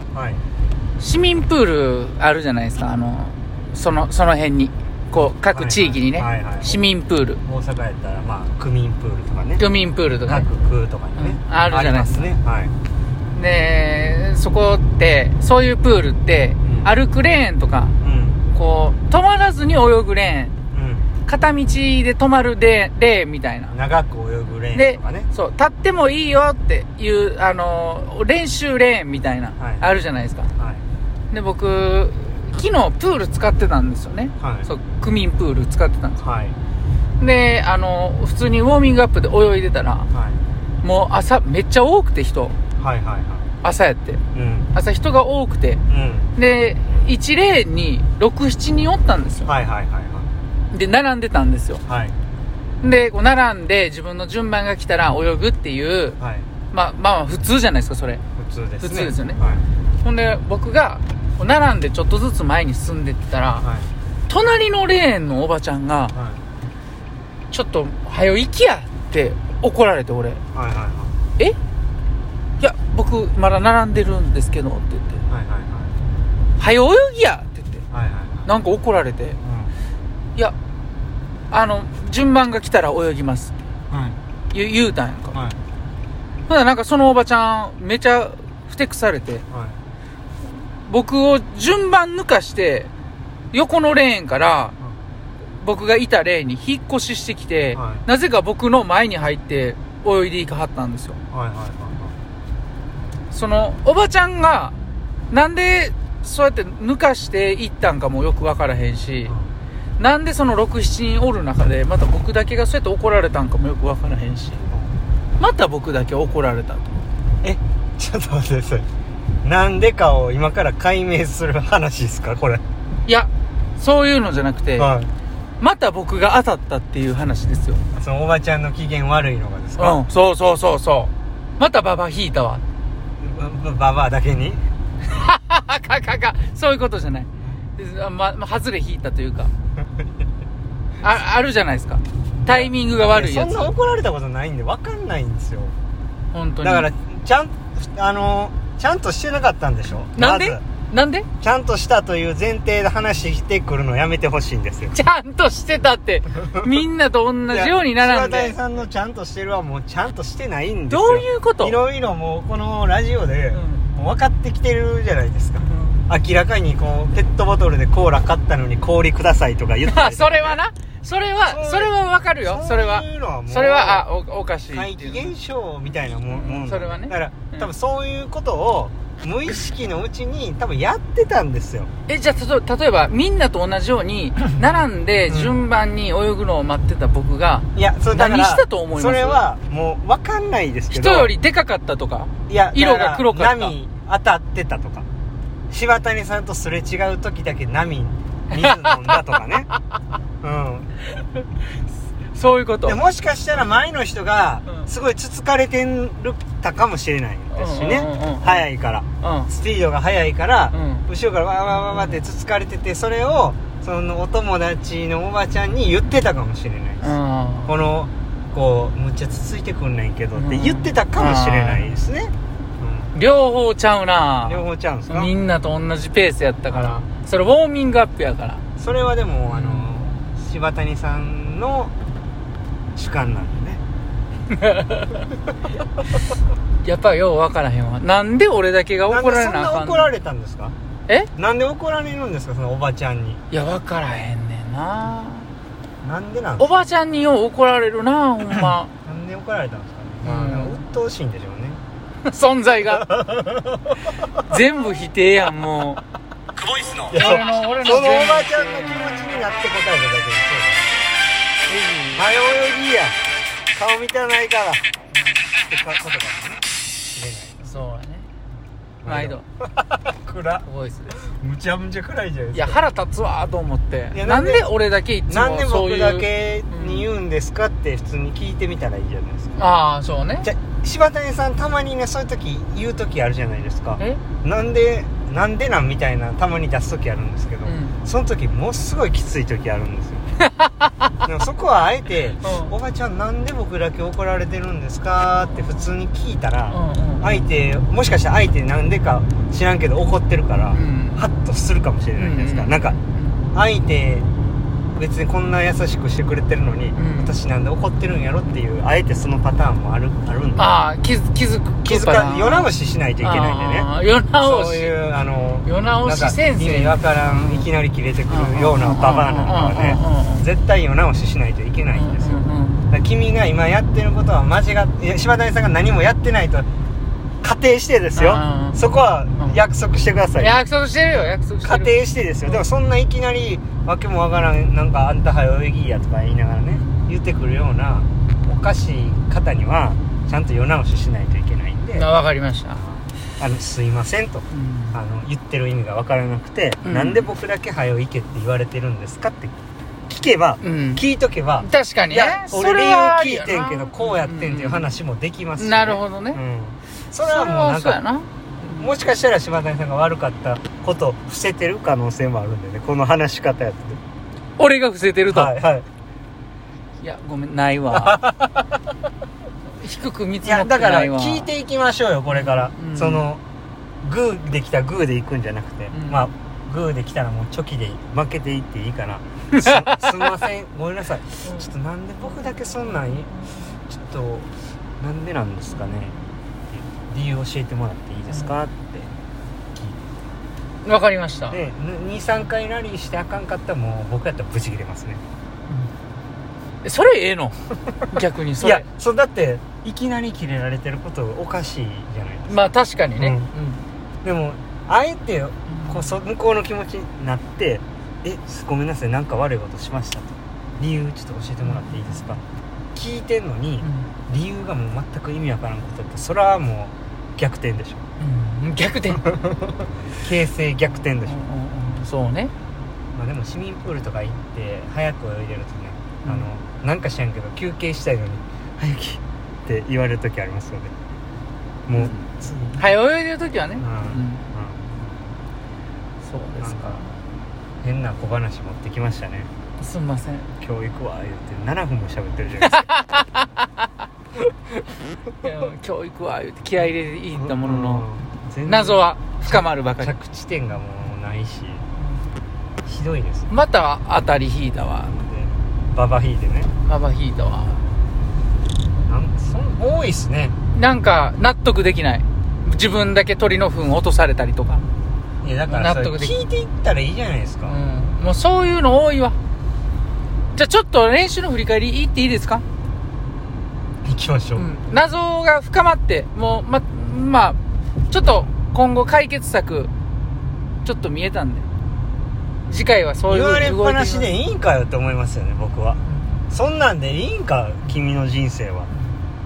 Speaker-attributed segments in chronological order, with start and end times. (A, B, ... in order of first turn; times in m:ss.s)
0:00.1-0:00.4 A
0:01.0-0:07.4 B
0:05.5-0:06.8 A
0:07.4-0:09.6 A
0:09.6-0:10.5 B
0:10.3-0:12.7 A
0:11.2-0:12.3 B
0:13.3-0:17.9 B
0:16.6-0:16.9 A
0:18.0-0:18.4 A
0:18.5-0:20.5 B
0:20.7-0:21.1 A
0:21.2-0:23.7 B
0:23.7-0:25.3 A
0:24.7-0:30.5 B
0:29.6-0:29.8 A
0:30.6-0:30.8 A
0:31.3-0:36.2 B
0:34.4-0:34.7 A
0:36.2-0:36.6 A
0:37.2-0:40.1 B
0:40.1-0:40.4 A
0:40.8-0:42.5 B
0:42.8-0:43.5 A
0:43.6-0:45.8 B
0:44.3-0:44.7 A
0:45.9-0:46.3 A
0:46.4-0:49.5 B
0:49.4-0:50.3 A
0:50.7-0:51.8 B
0:51.9-0:52.1 A
0:52.8-0:56.2 B
0:56.2-0:56.5 A
0:56.7-0:58.2 B
0:58.4-0:59.6 A
0:58.8-0:59.4 B
1:00.0-1:03.6 B
1:03.6-1:03.9 A
1:04.3-1:06.1 B
1:06.1-1:06.4 A
1:07.5-1:10.4 B
1:10.5-1:11.1 A
1:12.6-1:15.2 B
1:15.3-1:15.9 A
1:16.6-1:17.8 B
1:17.9-1:18.5 A
1:18.4-1:19.4 B
1:19.4-1:19.7 A
1:21.5-1:23.5 B
1:23.9-1:24.2 A
1:24.5-1:25.4 B
1:25.3-1:25.6 A
1:26.5-1:29.4 B
1:29.5-1:29.8 A
1:30.8-1:32.9 B
1:33.5-1:34.7 B
1:35.5-1:41.2 B
1:37.7-1:38.0 A
1:41.3-1:42.1 A
1:43.3-1:44.8 B
1:45.3-1:49.3 B
1:50.0-1:54.6 B
1:55.4-1:56.9 B
1:57.4-1:58.8 A
1:59.4-2:02.6 A
2:03.0-2:04.9 B
2:04.8-2:05.1 A
2:05.6-2:07.8 B
2:07.9-2:10.0 A
2:09.8-2:12.6 B
2:13.2-2:14.6 A
2:15.0-2:19.5 B
2:21.0-2:23.7 B
2:22.4-2:25.7 A
2:26.3-2:26.8 B
2:26.6-2:30.6 A
2:30.1-2:31.3 B
2:31.4-2:35.0 A
2:34.9-2:38.6 B
2:36.4-2:36.7 A
2:37.5-2:50.6 A
2:40.9-2:41.8 B
2:43.5-2:43.8 B
2:45.6-2:46.0 B
2:49.9-2:55.3 B
2:51.5-2:54.1 A
2:54.7-3:01.9 A
2:56.3-2:57.6 B
3:02.1-3:09.4 B
3:05.3-3:05.6 A
3:07.7-3:11.3 A
3:10.9-3:13.7 B
3:12.5-3:15.1 A
3:15.7-3:19.7 A
3:18.5-3:19.2 B
3:20.4-3:20.9 A
3:21.1-3:21.4 B
3:22.3-3:23.0 B
3:22.8-3:37.1 A
3:27.5-3:28.6 B
3:29.2-3:29.5 B
3:30.7-3:31.0 B
3:31.7-3:32.2 B
3:37.0-3:37.7 B
3:37.6-3:43.1 A
3:40.3-3:41.9 B
3:43.1-3:48.6 B
3:44.4-3:45.3 A
3:46.7-3:47.0 A
3:48.8-3:51.9 A
3:49.5-3:50.1 B
3:52.9-3:53.8 A
3:54.5-3:55.2 B
3:56.8-4:00.1 B
3:59.0-4:00.7 A
4:01.4-4:03.4 A
4:03.5-4:05.5 B
4:06.0-4:06.7 A
4:06.6-4:08.9 B
4:09.0-4:11.8 A
4:10.2-4:10.8 B
4:12.2-4:13.2 B
4:12.9-4:14.1 A
4:14.4-4:16.0 B
4:16.9-4:21.0 A
4:17.1-4:19.2 B
4:21.7-4:22.2 B
4:22.1-4:23.2 A
4:23.7-4:24.8 A
4:25.6-4:27.6 A
4:27.6-4:28.3 B
4:29.0-4:32.8 A
4:29.0-4:29.4 B
4:30.6-4:31.1 B
4:32.5-4:37.1 B
4:34.1-4:34.7 A
4:35.3-4:39.6 A
4:39.6-4:40.5 B
4:40.4-4:50.2 A
4:47.6-4:48.0 B
4:50.5-4:51.1 B
4:51.2-5:03.0 A
4:52.4-4:52.7 B
4:55.3-4:55.9 B
4:56.7-4:57.4 B
5:00.7-5:01.2 B
5:02.2-5:03.4 B
5:03.5-5:04.3 A
5:04.9-5:10.7 A
5:07.0-5:07.3 B
5:10.6-5:12.7 B
5:11.8-5:26.7 A
5:13.2-5:14.9 B
5:15.6-5:17.7 B
5:18.3-5:20.4 B
5:21.9-5:22.8 B
5:27.4-5:30.6 A
5:28.2-5:28.8 B
5:30.4-5:31.9 B
5:31.6-5:42.1 A
5:41.9-5:42.8 B
5:42.7-5:49.6 A
5:44.5-5:45.0 B
5:46.8-5:47.2 B
5:50.1-5:58.0 A
5:50.6-5:51.0 B
5:51.6-5:54.9 B
5:55.6-5:56.4 B
5:57.2-5:58.9 B
5:58.6-6:04.0 A
6:04.6-6:05.5 B
6:05.3-6:05.9 A
6:07.0-6:08.2 B
6:07.9-6:08.6 A
6:09.8-6:11.5 B
6:10.4-6:13.4 A
6:12.3-6:13.2 B
6:14.0-6:23.3 A
6:15.9-6:16.2 B
6:19.5-6:20.0 B
6:22.5-6:23.7 B
6:23.9-6:26.2 A
6:26.7-6:29.1 A
6:29.7-6:30.0 A
6:30.8-6:31.6 B
6:31.5-6:35.2 A
6:36.8-6:38.8 B
6:38.6-6:43.5 A
6:42.5-6:43.8 B
6:44.2-6:52.4 A
6:45.7-6:46.0 B
6:51.7-6:52.2 B
6:52.9-6:58.0 A
6:53.8-6:54.1 B
6:58.2-6:59.4 B
6:59.3-7:01.4 A
7:01.2-7:02.5 B
7:03.1-7:10.9 A
7:11.9-7:12.8 A
7:11.9-7:12.2 B
7:12.7-7:14.4 B
7:13.8-7:14.9 A
7:16.2-7:17.1 B
7:16.6-7:17.0 A
7:17.8-7:19.5 A
7:19.8-7:20.5 B
7:20.6-7:22.9 A
7:22.6-7:23.8 B
7:25.4-7:28.1 B
7:27.3-7:31.8 A
7:28.6-7:30.1 B
7:32.8-7:33.5 A
7:33.5-7:35.1 B
7:35.0-7:36.7 A
7:36.8-7:37.8 B
7:39.1-7:40.6 A
7:40.7-7:44.8 B
7:45.4-7:47.8 A
7:45.7-7:46.3 B
7:47.7-7:49.4 B
7:50.5-7:52.6 B
7:54.0-7:54.7 A
7:54.6-7:59.9 B
8:00.8-8:01.6 B
8:02.6-8:04.3 B
8:03.2-8:08.9 A